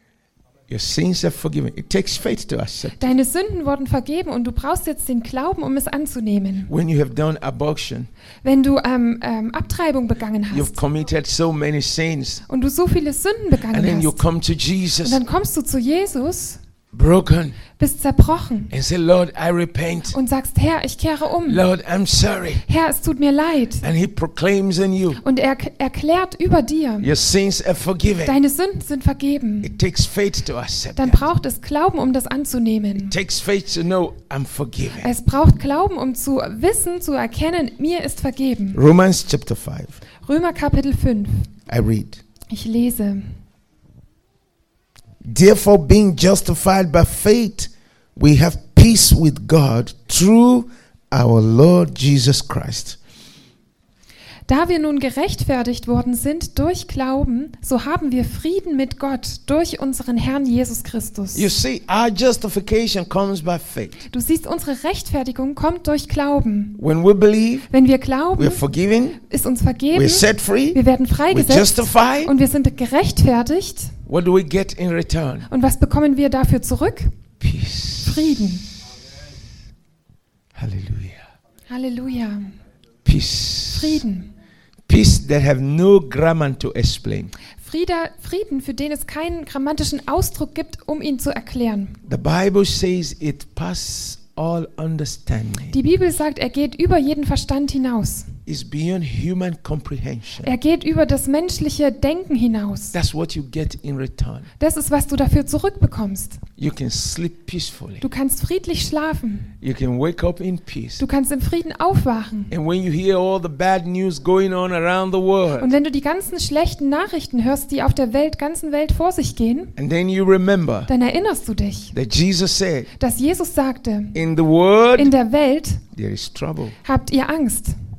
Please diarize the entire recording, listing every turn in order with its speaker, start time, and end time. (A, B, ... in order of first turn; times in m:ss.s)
0:00.7-0:03.1 A
0:03.0-0:06.7 B
0:06.7-0:08.1 A
0:08.4-0:10.8 B
0:10.5-0:12.4 A
0:12.5-0:14.2 B
0:13.7-0:15.2 A
0:15.0-0:16.6 B
0:16.9-0:17.6 A
0:17.8-0:18.7 B
0:18.7-0:20.2 A
0:20.1-0:21.6 B
0:21.4-0:22.6 A
0:22.7-0:23.8 B
0:23.8-0:25.2 A
0:25.2-0:27.1 B
0:27.0-0:28.4 A
0:28.2-0:29.7 B
0:29.6-0:31.2 A
0:31.0-0:33.1 B
0:33.0-0:35.1 A
0:35.0-0:38.8 B
0:38.7-0:40.0 A
0:40.2-0:41.5 B
0:41.7-0:42.2 A
0:42.5-0:43.3 B
0:45.2-0:53.0 A
0:54.5-1:01.5 B
1:01.3-1:04.0 A
1:04.1-1:06.8 B
1:06.8-1:07.7 A
1:07.7-1:08.6 B
1:08.4-1:09.2 A
1:09.2-1:13.9 B
1:09.9-1:10.8 A
1:11.3-1:12.3 A
1:14.0-1:15.5 A
1:15.5-1:17.1 B
1:17.4-1:18.2 A
1:18.0-1:18.6 B
1:20.5-1:21.2 A
1:21.7-1:22.5 B
1:23.0-1:24.0 A
1:23.7-1:24.3 B
1:24.9-1:27.3 A
1:27.6-1:32.0 B
1:32.0-1:35.8 A
1:35.7-1:38.3 B
1:38.4-1:40.5 A
1:40.4-1:42.9 B
1:42.9-1:44.5 A
1:44.6-1:46.4 B
1:46.6-1:48.0 A
1:48.0-1:49.5 B
1:49.6-1:51.0 A
1:51.0-1:52.5 B
1:52.5-1:55.7 A
1:55.6-1:59.7 B
1:59.8-2:00.9 A
2:00.9-2:01.9 B
2:01.9-2:02.9 A
2:03.0-2:04.2 B
2:04.1-2:05.1 A
2:05.0-2:05.8 B
2:05.9-2:06.8 A
2:06.8-2:07.7 B